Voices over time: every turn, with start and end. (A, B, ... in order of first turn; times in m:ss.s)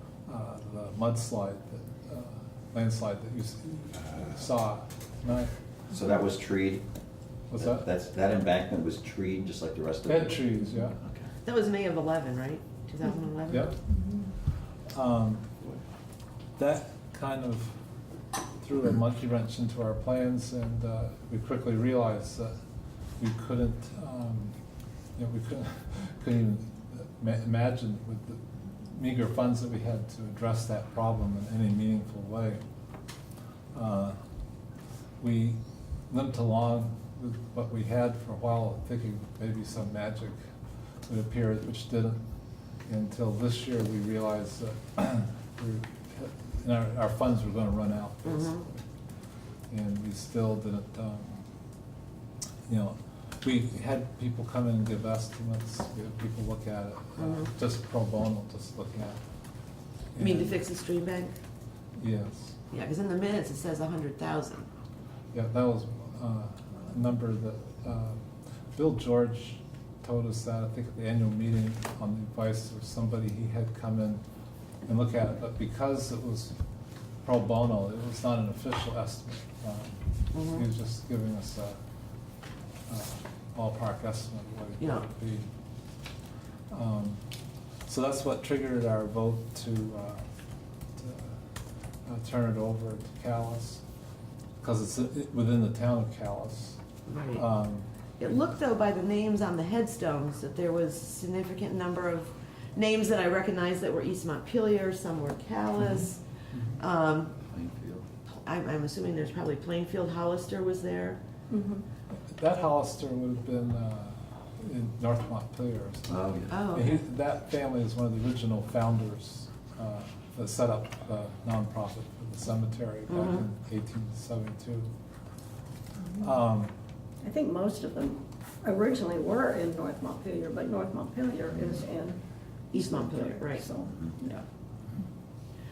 0:00.3-0:05.5 A
0:05.9-0:06.8 B
0:07.5-0:07.9 A
0:07.6-0:11.3 B
0:10.0-0:11.0 A
0:11.4-0:13.7 C
0:13.5-0:13.8 A
0:13.9-0:14.2 D
0:14.9-0:15.5 A
0:16.6-0:17.8 A
0:18.6-0:22.6 A
0:23.2-0:24.5 A
0:25.2-0:32.6 A
0:33.7-0:34.2 A
0:35.2-0:35.6 A
0:36.1-0:40.4 A
0:41.0-0:42.2 A
0:42.9-0:48.8 A
0:48.2-0:48.6 C
0:49.7-0:51.4 A
0:52.7-0:59.2 A
0:57.2-0:57.5 C
1:00.1-1:00.6 A
1:00.2-1:01.3 C
1:02.0-1:02.6 A
1:02.7-1:04.6 C
1:05.3-1:08.2 A
1:08.7-1:14.2 A
1:14.8-1:16.5 A
1:17.2-1:21.8 A
1:20.3-1:20.6 C
1:22.9-1:25.5 A
1:24.8-1:25.0 C
1:26.7-1:27.2 A
1:27.8-1:30.3 A
1:31.0-1:31.4 A
1:32.0-1:33.8 A
1:34.6-1:36.8 A
1:37.1-1:37.4 C
1:37.3-1:37.9 A
1:38.2-1:47.4 C
1:47.5-1:48.0 B
1:48.2-1:51.2 C
1:51.5-1:51.8 D
1:52.3-2:04.9 A
1:56.1-1:56.6 B
1:56.5-1:57.0 C
2:03.1-2:03.4 C
2:06.1-2:06.7 A
2:07.2-2:12.2 D
2:12.7-2:13.7 C
2:12.7-2:14.4 D
2:13.8-2:14.1 B